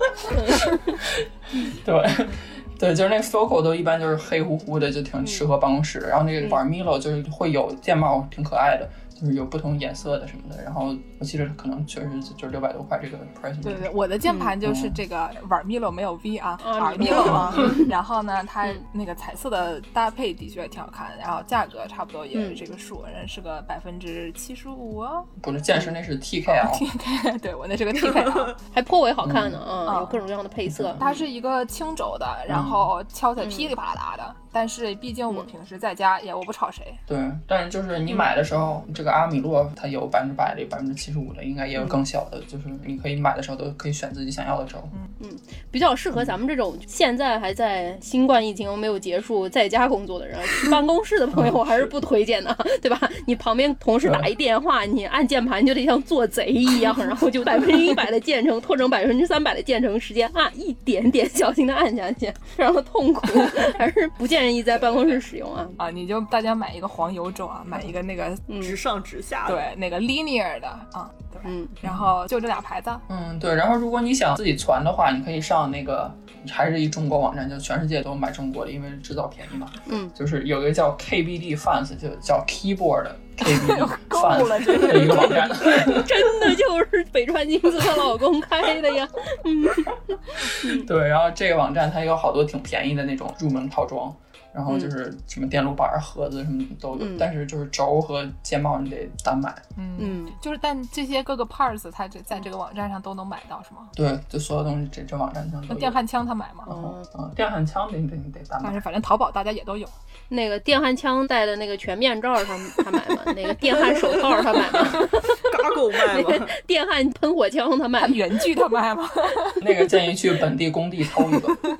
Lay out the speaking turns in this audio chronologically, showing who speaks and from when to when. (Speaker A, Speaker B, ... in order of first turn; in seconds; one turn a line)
Speaker A: 0.2-13.9
Speaker B: 0.3-1.0
Speaker C: 13.6-25.3
Speaker B: 14.3-14.5
Speaker A: 14.6-15.0
Speaker B: 16.6-17.9
Speaker B: 22.3-22.6
Speaker A: 25.4-26.8
Speaker C: 26.5-28.6
Speaker B: 28.7-31.1
Speaker A: 29.2-29.6
Speaker C: 29.9-30.2
Speaker A: 30.7-31.0
Speaker C: 31.0-37.0
Speaker A: 32.5-32.9
Speaker B: 33.4-33.7
Speaker A: 37.1-44.9
Speaker C: 44.9-45.2
Speaker B: 45.2-65.8
Speaker A: 51.3-51.9
Speaker A: 54.0-54.3
Speaker C: 65.8-68.5
Speaker B: 68.5-68.8
Speaker D: 68.6-69.7
Speaker C: 69.5-73.0
Speaker B: 71.4-71.8
Speaker A: 73.1-86.6
Speaker B: 79.8-80.1
Speaker C: 83.4-85.8
Speaker B: 85.3-90.9
Speaker A: 90.6-99.6
Speaker B: 97.0-97.2
Speaker C: 99.8-103.9
Speaker B: 100.0-100.3
Speaker A: 103.9-106.0
Speaker C: 105.7-106.8
Speaker B: 106.7-107.0
Speaker A: 106.7-108.8
Speaker C: 108.6-109.9
Speaker B: 110.3-115.5
Speaker D: 114.8-116.5
Speaker B: 116.0-118.4
Speaker C: 118.0-119.9
Speaker A: 119.6-121.6